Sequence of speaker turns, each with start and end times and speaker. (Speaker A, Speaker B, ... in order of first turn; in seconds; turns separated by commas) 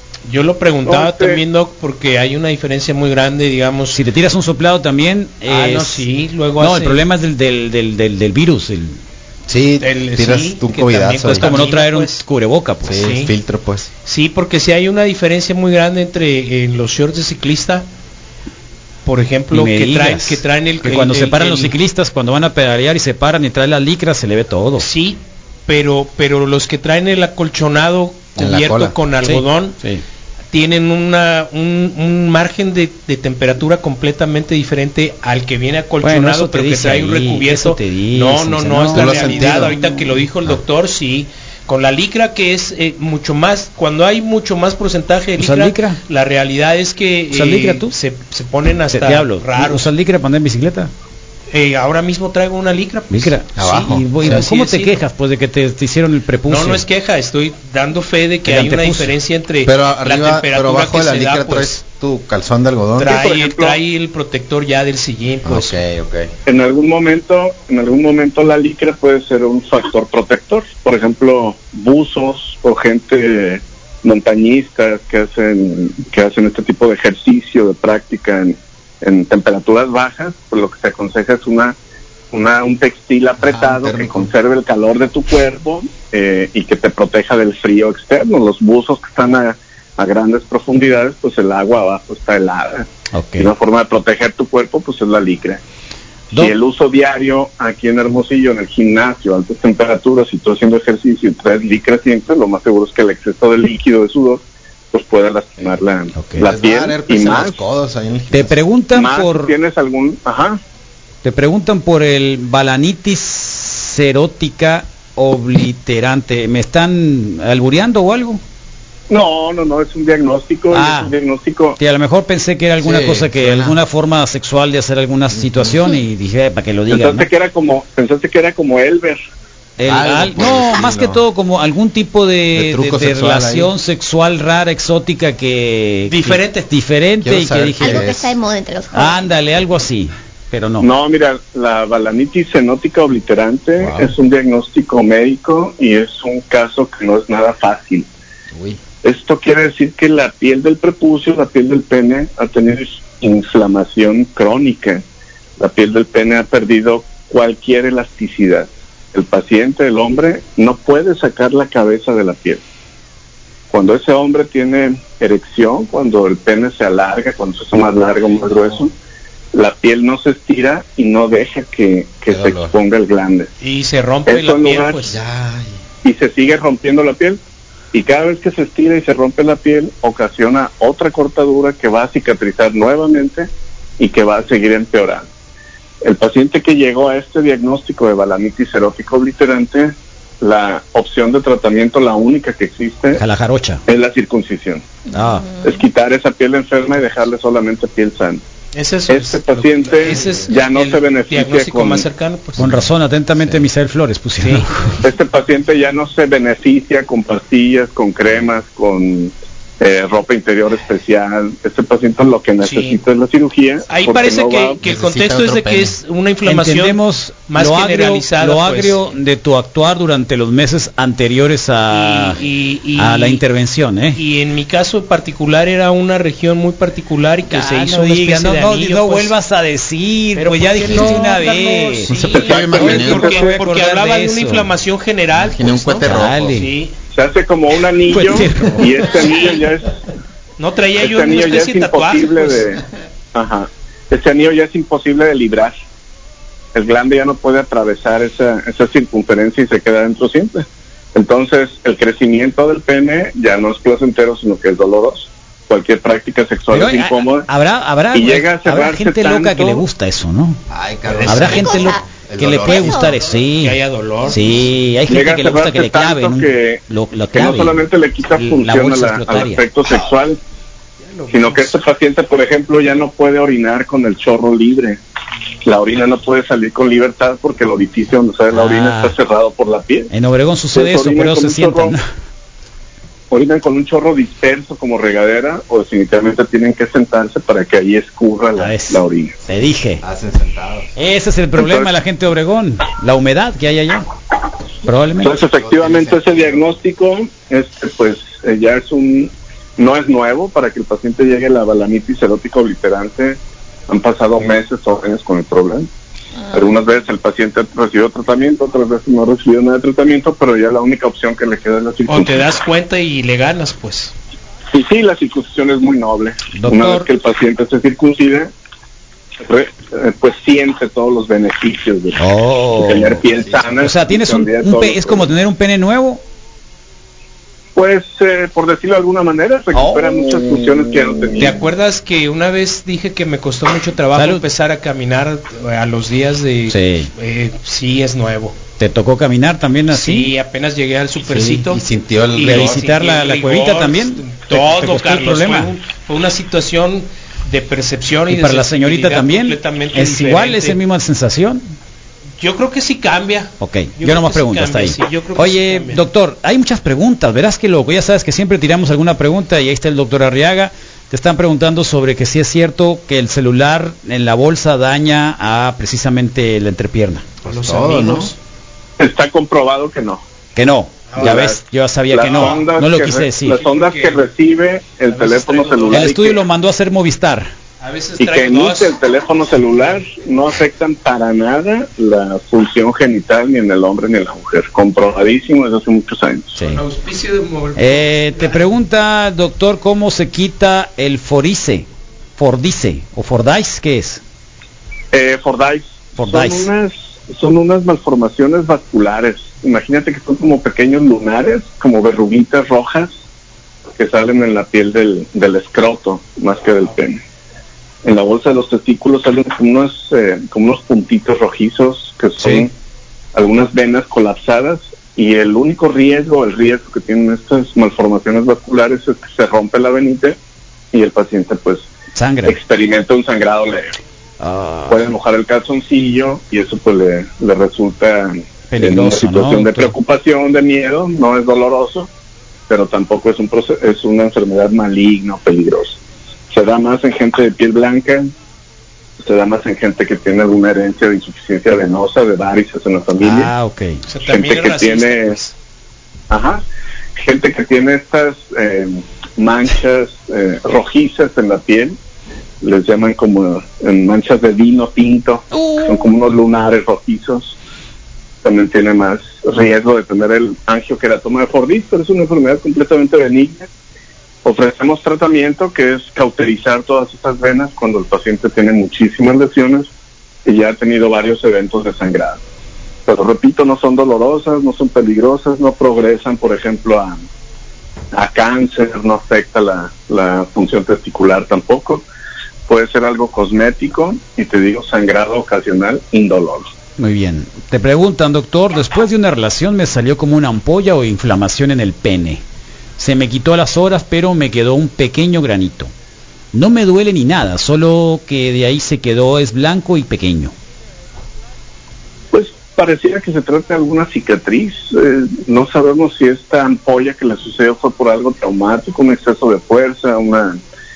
Speaker A: 0.2-4.0, Speaker B: 0.8-1.4, Speaker C: 3.9-6.0, Speaker A: 5.5-7.0, Speaker C: 6.6-9.0, Speaker D: 9.5-11.6, Speaker A: 9.8-12.2, Speaker C: 11.2-13.1, Speaker D: 12.8-13.9, Speaker A: 13.0-13.3, Speaker A: 14.1-17.9, Speaker A: 19.1-21.7, Speaker C: 19.5-24.9, Speaker A: 24.8-29.8, Speaker D: 28.4-28.9, Speaker C: 29.2-30.0, Speaker A: 30.5-49.9, Speaker C: 36.0-40.0, Speaker D: 38.9-39.8, Speaker C: 45.4-46.0, Speaker C: 47.3-47.9, Speaker C: 48.9-50.9, Speaker A: 51.5-55.0, Speaker C: 53.1-56.8, Speaker D: 53.6-54.4, Speaker A: 56.5-61.7, Speaker C: 58.5-59.1, Speaker D: 59.6-63.1, Speaker A: 63.0-65.8, Speaker B: 63.0-63.8, Speaker D: 65.4-66.3, Speaker B: 66.5-81.8, Speaker B: 82.3-95.6, Speaker D: 83.4-84.3, Speaker C: 93.1-93.5, Speaker B: 96.3-107.6, Speaker C: 106.2-106.4, Speaker D: 106.4-108.6, Speaker C: 108.3-109.5, Speaker B: 108.9-110.6, Speaker C: 111.2-118.4, Speaker B: 119.1-121.8, Speaker C: 120.7-121.1, Speaker C: 121.8-127.3, Speaker D: 122.8-123.8, Speaker D: 125.3-125.8, Speaker B: 126.9-129.2, Speaker C: 129.8-138.1, Speaker D: 129.8-131.2, Speaker D: 132.5-133.7, Speaker A: 136.1-136.7, Speaker D: 137.2-138.3, Speaker E: 137.8-139.3, Speaker C: 138.9-140.9, Speaker B: 140.8-148.1, Speaker D: 143.8-144.1, Speaker D: 148.5-148.8, Speaker B: 149.0-155.0, Speaker B: 155.6-162.6, Speaker B: 163.7-168.9, Speaker B: 169.5-173.5, Speaker D: 172.3-172.7, Speaker A: 173.6-175.2, Speaker B: 174.2-175.0, Speaker D: 175.1-175.8, Speaker B: 176.0-177.4, Speaker B: 177.9-185.3, Speaker B: 186.0-193.2, Speaker C: 193.2-193.8, Speaker B: 193.9-194.8, Speaker C: 195.1-195.5, Speaker B: 195.6-198.4, Speaker A: 198.7-202.8, Speaker B: 199.1-202.0, Speaker D: 200.1-200.5, Speaker C: 202.6-204.9, Speaker A: 204.4-204.7, Speaker B: 205.0-214.8, Speaker A: 212.6-213.0, Speaker A: 213.9-219.0, Speaker D: 214.8-215.9, Speaker C: 216.4-222.4, Speaker A: 221.9-223.4, Speaker C: 223.0-224.2, Speaker A: 224.1-229.3, Speaker C: 227.5-234.7, Speaker A: 230.3-236.9, Speaker D: 230.8-231.2, Speaker D: 232.1-233.4, Speaker D: 235.3-236.7, Speaker C: 236.0-236.7, Speaker B: 237.1-239.9, Speaker C: 238.1-239.1, Speaker A: 239.1-239.6, Speaker A: 240.6-242.6, Speaker B: 241.0-242.8, Speaker B: 243.3-245.7, Speaker B: 246.7-257.5, Speaker C: 256.7-260.6, Speaker B: 258.1-259.8, Speaker D: 260.7-263.1, Speaker A: 261.1-261.6, Speaker C: 261.2-267.8, Speaker E: 261.4-263.2, Speaker A: 263.6-264.4, Speaker B: 265.1-270.4, Speaker C: 268.4-269.6, Speaker A: 271.0-271.7, Speaker B: 271.3-275.0, Speaker B: 275.6-280.1, Speaker C: 278.5-279.1, Speaker C: 280.1-282.0, Speaker B: 280.7-282.0, Speaker B: 283.3-289.3, Speaker C: 288.6-290.0, Speaker D: 290.0-290.9, Speaker C: 290.9-294.1, Speaker B: 291.6-291.9, Speaker C: 294.8-295.4, Speaker B: 295.2-303.4, Speaker D: 295.3-296.7, Speaker B: 303.9-305.9, Speaker B: 306.5-312.4, Speaker A: 312.1-314.1, Speaker B: 314.7-318.5, Speaker C: 316.5-317.1, Speaker B: 319.5-325.3, Speaker C: 322.2-323.2, Speaker D: 323.3-323.8, Speaker C: 323.8-326.2, Speaker B: 327.8-331.5, Speaker C: 329.7-330.4, Speaker A: 331.4-338.6, Speaker C: 334.1-334.4, Speaker C: 336.7-337.1, Speaker C: 338.8-340.3, Speaker A: 339.9-341.8, Speaker D: 341.2-342.8, Speaker A: 342.4-350.8, Speaker C: 342.4-345.7, Speaker C: 348.3-351.6, Speaker A: 352.4-356.0, Speaker C: 353.6-367.3, Speaker D: 367.4-368.3, Speaker A: 367.4-368.4, Speaker B: 369.0-370.2, Speaker C: 370.6-373.6, Speaker A: 371.1-371.5, Speaker B: 371.2-376.4, Speaker A: 372.2-372.7, Speaker A: 373.6-374.3, Speaker A: 375.1-376.1, Speaker C: 375.9-377.5, Speaker A: 377.8-380.1, Speaker B: 378.2-386.6, Speaker C: 386.6-386.8, Speaker A: 386.6-388.7, Speaker C: 387.8-391.9, Speaker C: 392.4-394.2, Speaker B: 395.1-403.1, Speaker C: 396.1-396.7, Speaker B: 404.0-407.2, Speaker B: 408.0-412.7, Speaker C: 412.4-412.7, Speaker B: 413.3-420.4, Speaker B: 420.9-421.9, Speaker C: 422.1-422.6, Speaker B: 422.4-423.9, Speaker C: 424.4-425.0, Speaker B: 424.9-432.1, Speaker C: 428.7-429.9, Speaker B: 432.7-436.0, Speaker B: 436.5-438.3, Speaker B: 439.2-443.5, Speaker C: 443.2-444.0, Speaker A: 444.1-445.5, Speaker B: 444.3-445.4, Speaker B: 446.3-446.6, Speaker B: 447.2-452.0, Speaker B: 452.6-457.6, Speaker C: 455.6-456.1, Speaker B: 458.4-463.7, Speaker B: 464.4-469.9, Speaker B: 470.4-472.4, Speaker B: 473.1-477.2, Speaker B: 478.1-482.0, Speaker B: 482.7-486.7, Speaker C: 487.0-492.4, Speaker C: 493.0-495.9, Speaker C: 496.5-500.5, Speaker B: 502.3-510.6